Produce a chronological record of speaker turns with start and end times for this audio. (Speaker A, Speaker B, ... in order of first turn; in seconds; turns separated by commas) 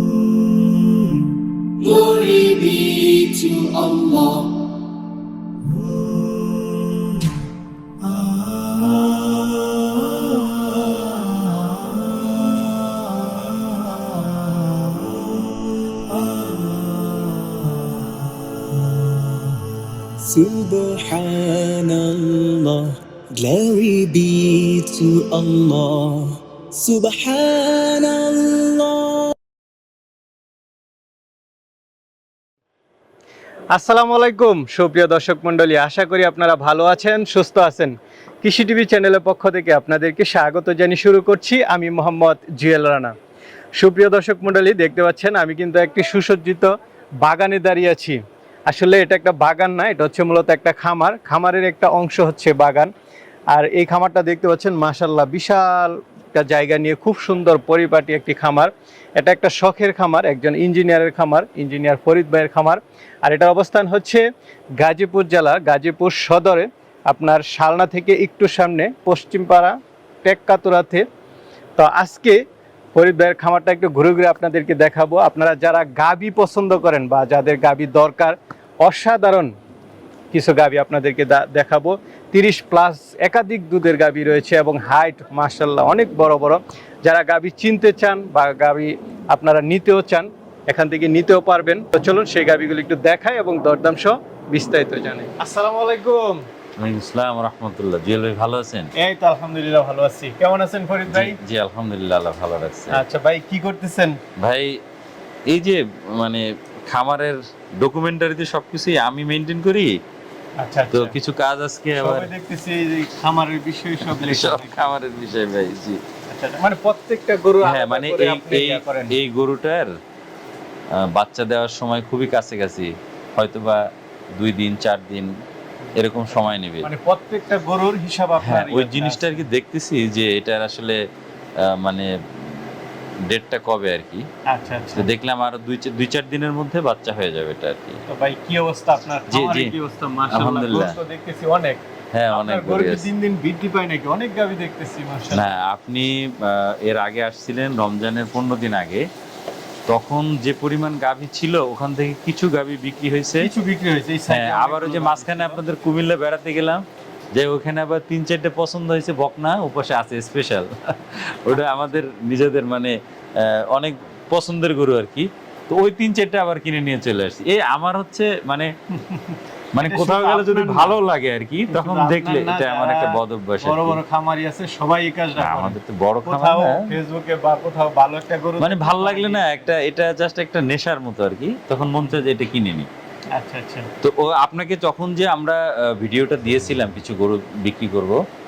Speaker A: 1.8-4.5, Speaker A: 16.2-16.8, Speaker A: 20.2-29.3, Speaker B: 33.7-43.1, Speaker B: 43.8-52.9, Speaker B: 53.5-64.2, Speaker B: 64.8-71.0, Speaker B: 71.8-72.4, Speaker B: 72.9-79.5, Speaker B: 80.3-96.4, Speaker C: 96.8-98.9, Speaker B: 98.9-101.4, Speaker C: 101.1-103.0, Speaker B: 102.9-104.2, Speaker C: 104.4-104.8, Speaker C: 105.5-110.0, Speaker B: 110.6-111.2, Speaker C: 110.9-112.3, Speaker B: 112.0-115.0, Speaker C: 114.0-116.0, Speaker B: 116.3-119.2, Speaker C: 117.6-119.9, Speaker C: 120.9-123.8, Speaker C: 124.4-125.3, Speaker C: 125.9-126.9, Speaker B: 126.2-129.4, Speaker C: 128.4-131.0, Speaker C: 131.6-134.3, Speaker B: 134.5-135.1, Speaker C: 134.9-138.0, Speaker B: 138.1-145.4, Speaker C: 139.3-139.7, Speaker C: 140.3-141.0, Speaker C: 142.1-143.1, Speaker C: 145.3-149.1, Speaker C: 149.9-153.5, Speaker B: 153.4-155.6, Speaker C: 154.3-168.7, Speaker B: 169.0-170.9, Speaker C: 169.7-174.0, Speaker B: 171.7-179.5, Speaker C: 175.3-176.9, Speaker C: 178.6-182.9, Speaker B: 183.3-183.9, Speaker C: 184.0-188.2